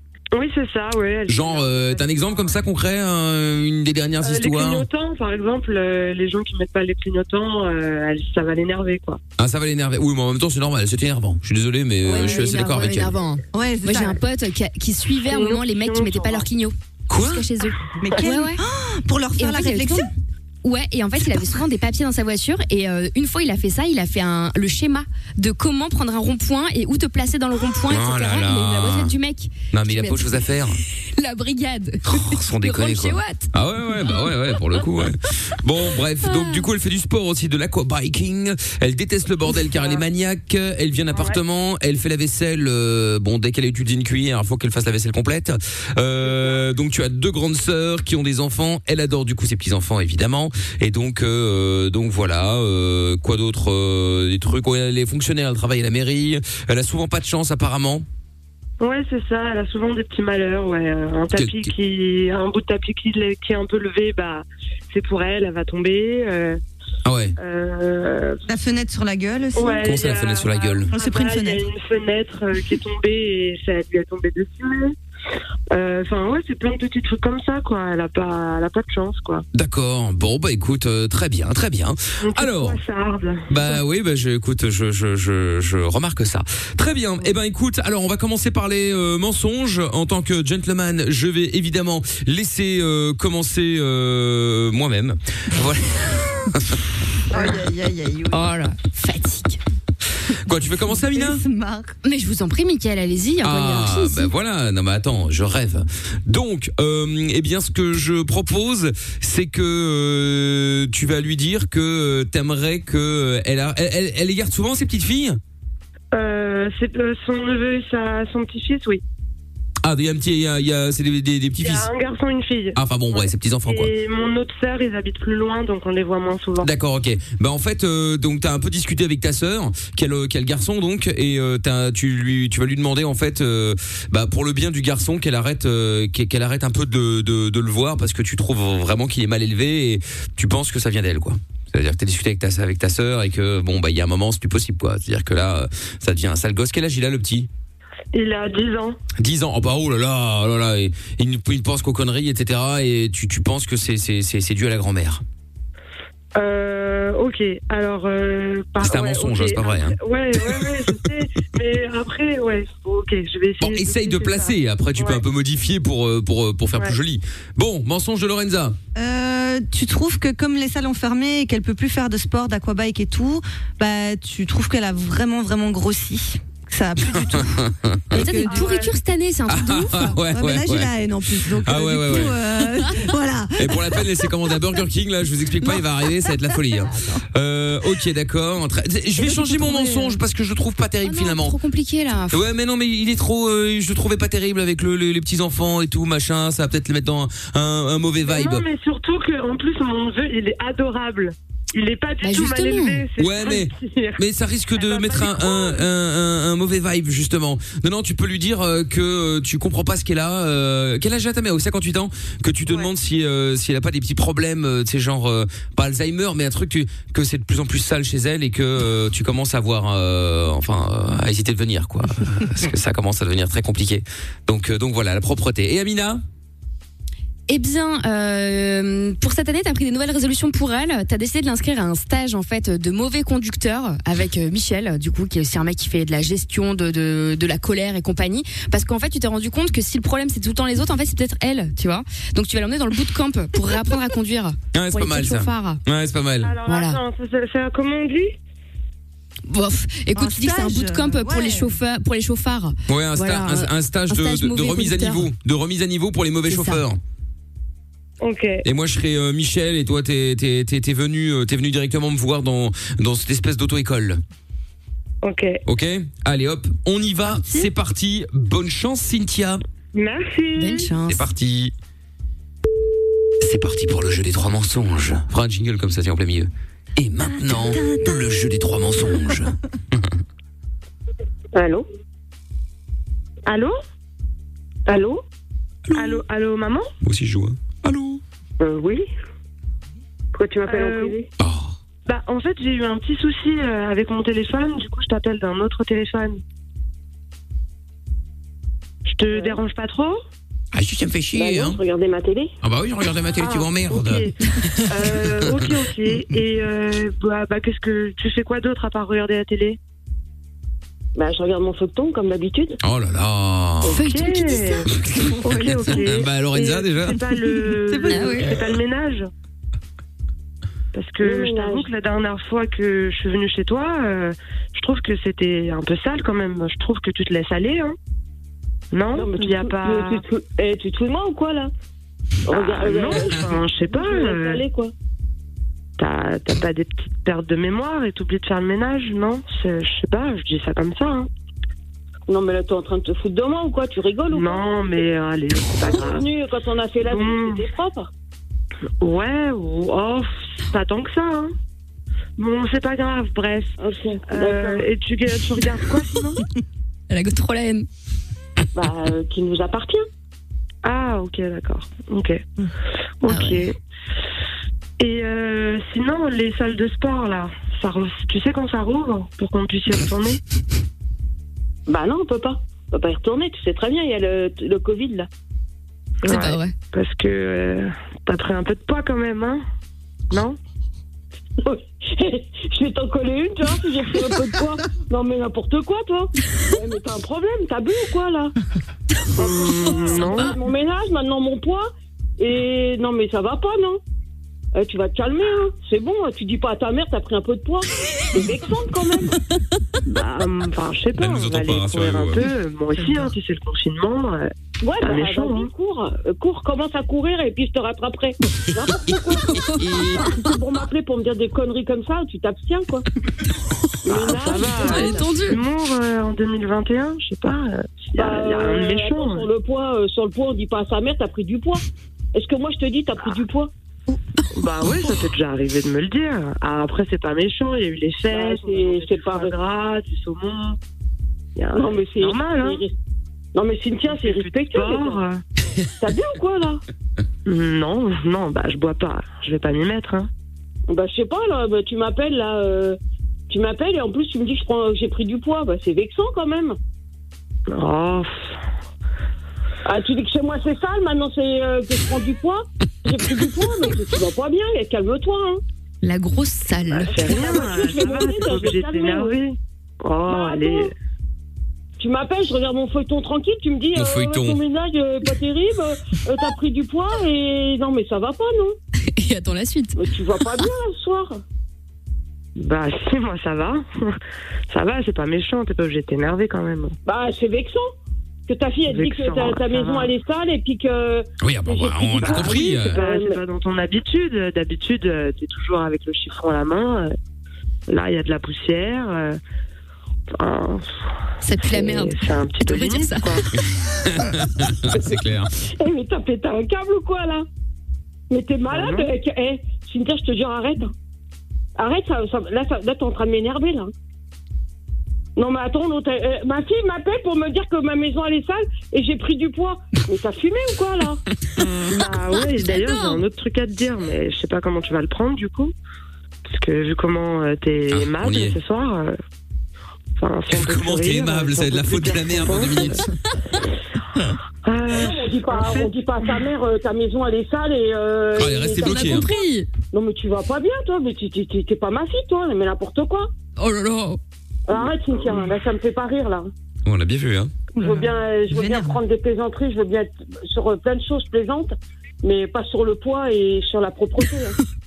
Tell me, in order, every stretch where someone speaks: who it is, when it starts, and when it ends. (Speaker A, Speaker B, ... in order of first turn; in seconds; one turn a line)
Speaker A: 0.3-2.5
Speaker B: 1.3-4.9
Speaker A: 4.2-9.2
Speaker B: 9.4-13.1
Speaker C: 12.0-18.6
Speaker D: 13.5-14.2
Speaker A: 15.3-16.5
Speaker B: 17.1-17.4
Speaker D: 18.0-20.1
Speaker C: 19.4-20.1
Speaker C: 20.6-30.5
Speaker B: 27.9-29.1
Speaker B: 29.7-30.8
Speaker C: 31.2-33.5
Speaker B: 32.1-58.1
Speaker C: 36.2-36.6
Speaker A: 46.2-46.6
Speaker A: 58.8-66.6
Speaker B: 61.4-61.7
Speaker B: 67.0-67.4
Speaker A: 67.4-68.4
Speaker D: 68.5-69.9
Speaker A: 69.6-75.0
Speaker B: 69.8-70.9
Speaker D: 70.9-71.7
Speaker A: 75.7-79.5
Speaker B: 79.5-82.8
Speaker A: 82.2-83.7
Speaker B: 83.5-96.8
Speaker D: 97.3-98.5
Speaker C: 98.3-99.6
Speaker B: 100.5-101.4
Speaker D: 100.8-101.9
Speaker C: 102.0-104.3
Speaker B: 103.4-115.4
Speaker A: 116.1-119.0
Speaker B: 119.8-121.9
Speaker A: 121.6-126.7
Speaker B: 122.8-123.9
Speaker B: 126.6-147.5
Speaker A: 148.1-149.0
Speaker B: 149.2-155.2
Speaker A: 156.3-165.2
Speaker B: 158.8-160.9
Speaker B: 163.6-168.8
Speaker D: 169.0-178.7
Speaker B: 177.2-178.3
Speaker C: 178.1-180.2
Speaker A: 178.5-178.9
Speaker B: 179.5-180.9
Speaker D: 180.2-184.7
Speaker B: 181.5-182.4
Speaker B: 183.6-191.6
Speaker D: 185.6-187.2
Speaker D: 189.2-190.2
Speaker C: 191.0-192.4
Speaker B: 192.3-198.7
Speaker A: 198.3-204.2
Speaker C: 202.2-203.1
Speaker B: 203.2-226.2
Speaker A: 204.8-205.8
Speaker C: 227.5-245.8
Speaker B: 244.7-246.6
Speaker A: 246.4-248.4
Speaker C: 246.7-247.0
Speaker C: 249.5-255.3
Speaker D: 250.2-251.7
Speaker B: 252.9-257.0
Speaker C: 256.5-256.8
Speaker A: 258.2-258.6
Speaker B: 258.6-264.2
Speaker A: 265.2-265.6
Speaker B: 265.7-269.6
Speaker A: 269.9-270.9
Speaker C: 270.6-271.3
Speaker B: 271.1-271.7
Speaker B: 273.4-280.1
Speaker D: 277.2-278.4
Speaker E: 281.5-281.9
Speaker A: 283.5-283.8
Speaker E: 284.9-285.2
Speaker B: 285.9-286.2
Speaker A: 285.9-286.9
Speaker B: 287.0-288.2
Speaker E: 288.6-289.1
Speaker E: 290.3-291.3
Speaker A: 290.7-291.2
Speaker B: 291.4-291.8
Speaker A: 292.1-296.4
Speaker A: 299.1-300.2
Speaker E: 299.3-299.6
Speaker B: 300.7-301.8
Speaker E: 301.3-302.6
Speaker B: 302.6-304.3
Speaker A: 303.4-304.3
Speaker B: 304.9-305.7
Speaker A: 304.9-309.8
Speaker E: 311.1-312.8
Speaker B: 312.8-314.0
Speaker C: 313.9-314.8
Speaker A: 314.0-314.9
Speaker B: 314.9-317.2
Speaker A: 315.4-319.3
Speaker D: 317.5-318.7
Speaker C: 318.1-318.4
Speaker A: 320.9-328.0
Speaker E: 321.2-321.9
Speaker A: 328.9-330.2
Speaker E: 329.1-331.7
Speaker E: 332.5-334.9
Speaker A: 332.5-334.6
Speaker A: 336.0-341.3
Speaker E: 342.3-345.1
Speaker A: 344.3-346.3
Speaker E: 345.7-348.1
Speaker A: 347.0-347.7
Speaker A: 349.0-351.5
Speaker A: 352.4-353.7
Speaker E: 353.8-354.9
Speaker A: 354.3-356.4
Speaker C: 357.1-357.9
Speaker E: 358.7-360.1
Speaker A: 360.8-362.4
Speaker A: 363.2-363.8
Speaker C: 363.3-363.7
Speaker A: 365.0-370.4
Speaker E: 371.9-375.3
Speaker A: 376.2-379.6
Speaker C: 376.3-376.7
Speaker A: 380.3-380.6
Speaker E: 381.6-388.6
Speaker A: 389.4-390.6
Speaker E: 389.4-394.0
Speaker E: 394.8-399.4
Speaker A: 400.1-404.5
Speaker B: 401.2-402.5
Speaker E: 404.8-413.1
Speaker A: 405.0-405.7
Speaker E: 414.0-415.3
Speaker A: 414.1-419.5
Speaker C: 414.5-415.6
Speaker E: 418.1-421.8
Speaker E: 422.3-423.7
Speaker A: 424.6-430.8
Speaker E: 428.3-429.6
Speaker E: 431.6-432.9
Speaker A: 431.6-432.8
Speaker E: 433.6-435.2
Speaker A: 434.1-435.4
Speaker E: 436.0-436.8
Speaker A: 437.5-440.3
Speaker E: 440.9-443.0
Speaker E: 443.5-446.8
Speaker A: 447.7-448.6
Speaker E: 449.9-455.6
Speaker C: 456.0-457.5
Speaker A: 456.9-460.9
Speaker E: 457.1-459.4
Speaker E: 460.3-460.9
Speaker E: 462.0-468.8
Speaker B: 464.0-464.6
Speaker C: 469.1-470.0
Speaker E: 469.9-471.4
Speaker A: 472.6-474.2
Speaker A: 474.7-477.0
Speaker E: 477.1-477.9
Speaker E: 478.5-483.4
Speaker A: 478.9-480.1
Speaker B: 481.4-483.0
Speaker A: 482.2-487.1
Speaker A: 487.9-489.4
Speaker A: 490.4-493.4
Speaker C: 491.4-493.4
Speaker B: 493.6-495.5
Speaker E: 495.8-497.5
Speaker E: 498.3-500.9
Speaker A: 498.7-499.1
Speaker E: 501.8-503.9
Speaker E: 505.4-511.2
Speaker A: 511.9-515.7
Speaker C: 512.4-513.2
Speaker A: 516.5-519.2
Speaker B: 517.9-518.6
Speaker A: 520.2-523.0
Speaker B: 520.5-523.0
Speaker A: 524.6-526.0
Speaker E: 524.9-529.2
Speaker B: 528.4-529.3
Speaker C: 528.7-529.7
Speaker E: 529.9-533.3
Speaker C: 533.6-534.2
Speaker E: 534.7-536.5
Speaker B: 536.9-537.5
Speaker D: 537.8-538.9
Speaker E: 537.8-544.6